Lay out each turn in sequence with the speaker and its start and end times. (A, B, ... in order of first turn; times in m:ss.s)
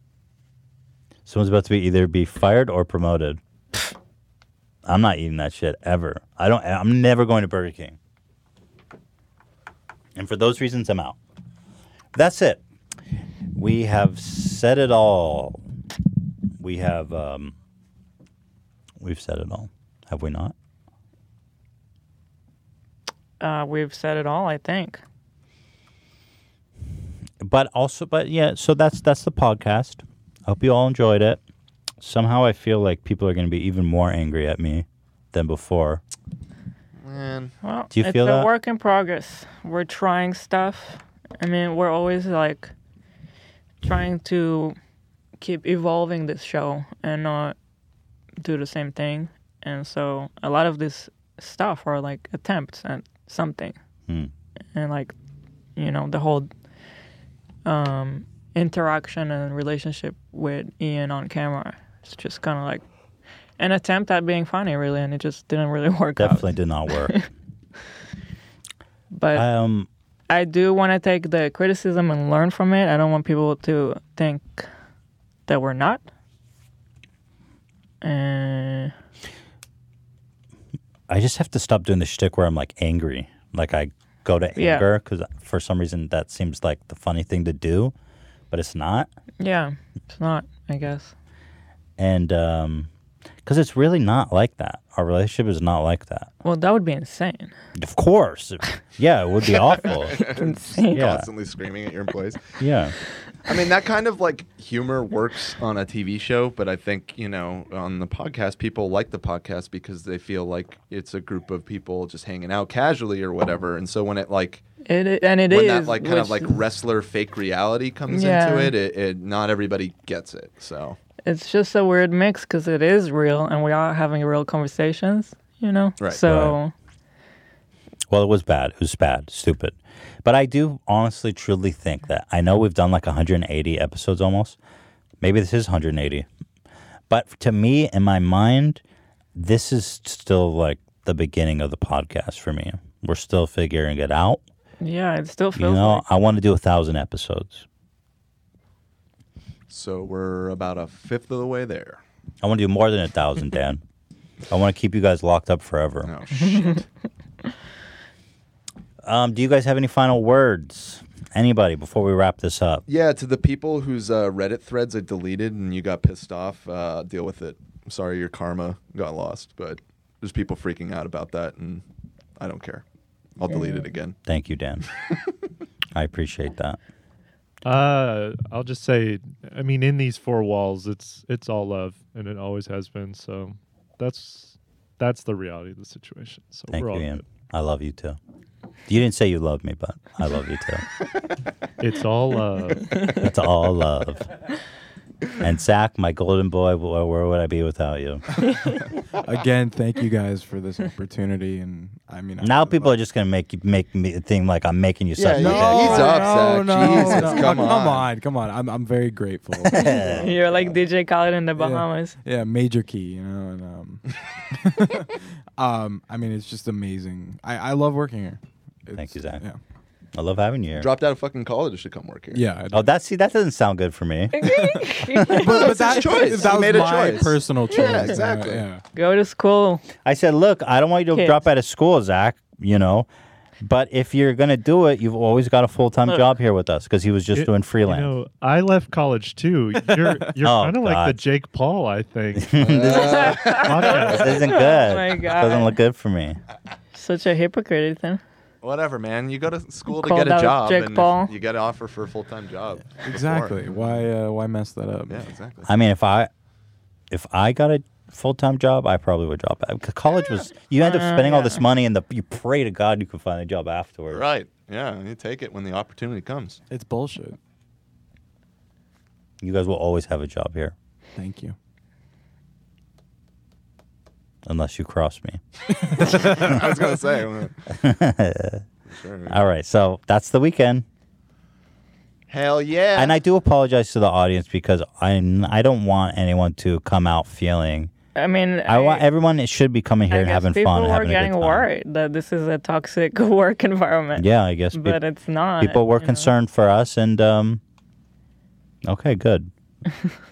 0:01.2-0:03.4 A
0:04.8-0:08.0 A
0:10.2-0:11.2 A
0:12.1-0:12.6 A
0:13.5-0:15.6 A
0:16.6-0:17.5 A
0:19.0-0:20.5 A
0:23.4-0:25.0 B
0:27.4-0:31.4 A
0:32.0-0:36.0 A
0:37.0-0:37.6 C
0:37.6-0:42.7 B
0:37.9-0:38.5 A
0:43.8-0:44.8 B
0:45.4-0:47.5 B
0:48.4-0:53.8 B
0:54.7-0:55.1 B
0:55.8-0:56.5 B
0:57.6-1:02.8 B
1:03.6-1:07.2 B
1:06.2-1:07.1 A
1:09.1-1:09.4 B
1:09.3-1:09.9 A
1:10.3-1:14.7 B
1:15.5-1:16.0 B
1:18.0-1:18.9 B
1:21.1-1:27.9 A
1:24.6-1:24.9 B
1:28.5-1:29.1 A
1:29.4-1:31.1 B
1:32.0-1:32.9 A
1:33.4-1:36.3 A
1:36.4-1:37.5 B
1:37.8-1:40.2 A
1:39.8-1:42.6 C
1:40.2-1:41.0 B
1:40.9-1:41.3 A
1:42.6-1:42.9 A
1:43.4-1:54.6 C
1:54.8-1:56.5 B
1:55.5-2:01.0 C
1:58.1-1:58.7 B
2:01.2-2:06.7 B
2:06.2-2:06.6 A
2:08.1-2:14.6 A
2:15.2-2:16.2 A
2:17.1-2:18.8 A
2:19.3-2:24.4 A
2:24.8-2:26.0 B
2:25.6-2:27.6 A
2:29.7-2:32.0 C
2:32.4-2:33.8 A
2:34.5-2:36.1 A
2:36.0-2:36.8 C
2:36.5-2:36.8 B
2:39.0-2:42.8 A
2:42.9-2:51.8 C
2:52.4-2:52.8 C
2:53.4-2:54.2 C
2:54.2-2:54.8 A
2:55.9-2:56.8 A
2:57.6-3:07.2 D
3:06.7-3:08.2 A
3:08.9-3:10.8 A
3:11.8-3:13.1 D
3:13.2-3:14.3 A
3:15.4-3:18.2 A
3:18.4-3:23.0 E
3:22.4-3:26.1 A
3:25.2-3:28.1 C
3:25.2-3:30.5 E
3:29.6-3:30.1 A
3:29.8-3:32.2 B
3:30.1-3:30.4 C
3:31.6-3:39.6 E
3:39.0-3:39.4 A
3:40.1-3:40.9 A
3:40.8-3:42.4 C
3:42.3-3:42.9 E
3:42.7-3:44.4 A
3:44.3-3:46.3 B
3:45.2-3:48.8 E
3:45.4-3:48.6 C
3:47.7-3:48.2 B
3:48.9-3:49.8 B
3:50.0-3:53.1 A
3:51.1-3:51.4 B
3:53.6-3:58.1 A
3:57.3-4:02.6 D
3:59.9-4:00.3 E
4:00.4-4:01.2 A
4:02.4-4:06.4 A
4:02.6-4:04.6 C
4:02.8-4:05.7 B
4:03.7-4:04.3 D
4:06.9-4:08.2 B
4:08.6-4:13.7 C
4:09.9-4:11.3 B
4:13.0-4:15.2 E
4:15.1-4:15.7 C
4:15.7-4:16.3 A
4:17.1-4:24.2 A
4:20.8-4:21.6 B
4:24.1-4:26.6 C
4:26.7-4:27.4 E
4:29.4-4:30.7 A
4:31.2-4:31.5 E
4:34.4-4:35.4 A
4:35.9-4:36.2 E
4:36.0-4:37.6 C
4:37.7-4:38.6 A
4:38.8-4:39.4 C
4:39.3-4:40.8 A
4:42.3-4:43.2 C
4:42.9-4:47.9 A
4:48.1-4:49.0 B
4:48.7-4:51.7 A
4:50.1-4:56.3 B
4:54.1-4:55.0 A
4:55.6-4:57.6 A
4:58.8-4:59.5 A